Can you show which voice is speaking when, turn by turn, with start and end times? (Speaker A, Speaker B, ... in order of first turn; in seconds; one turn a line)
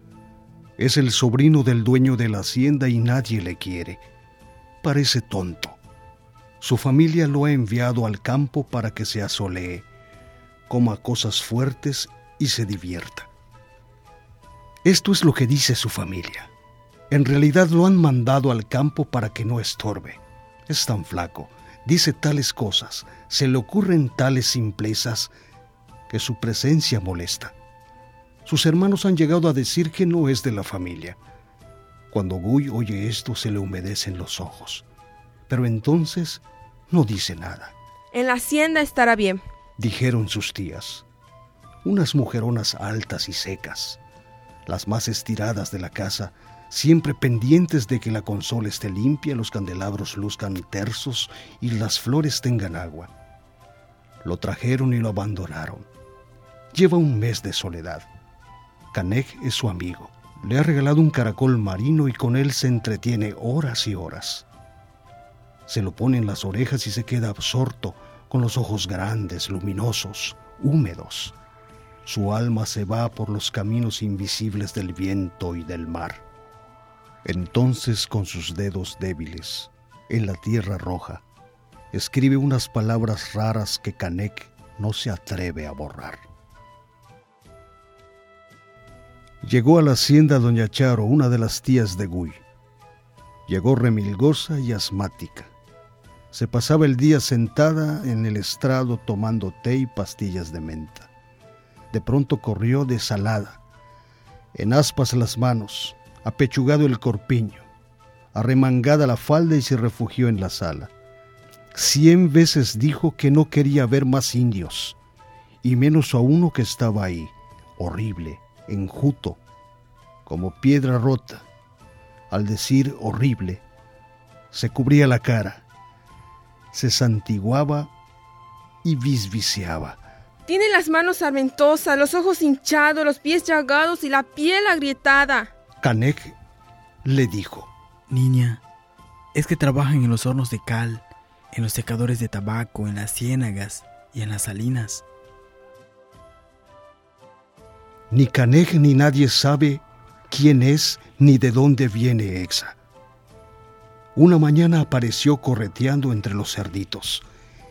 Speaker A: 0.8-4.0
Speaker A: 4.8-5.8
Speaker A: 6.6-9.9
Speaker A: 10.7-13.3
Speaker A: 14.8-16.5
Speaker A: 17.1-25.3
Speaker A: 26.1-27.5
Speaker A: 28.4-31.2
Speaker A: 32.1-34.8
Speaker A: 35.5-37.7
Speaker B: 38.1-39.4
Speaker A: 39.8-41.0
Speaker A: 41.8-44.0
Speaker A: 44.6-53.1
Speaker A: 54.2-55.9
Speaker A: 56.7-58.1
Speaker A: 58.9-64.5
Speaker A: 65.7-71.3
Speaker A: 72.0-76.2
Speaker A: 77.2-81.2
Speaker A: 81.9-86.2
Speaker A: 89.4-92.4
Speaker A: 93.5-95.5
Speaker A: 96.3-101.1
Speaker A: 101.9-103.6
Speaker A: 104.5-107.7
Speaker A: 108.3-110.9
Speaker A: 111.7-115.0
Speaker A: 115.6-119.4
Speaker A: 120.2-121.4
Speaker A: 122.3-123.6
Speaker A: 124.5-125.6
Speaker A: 126.7-127.9
Speaker A: 128.8-130.0
Speaker B: 130.5-135.5
Speaker A: 135.8-136.3
Speaker A: 137.0-137.7
Speaker C: 138.1-138.6
Speaker C: 139.3-145.0
Speaker A: 148.1-152.8
Speaker A: 154.2-157.2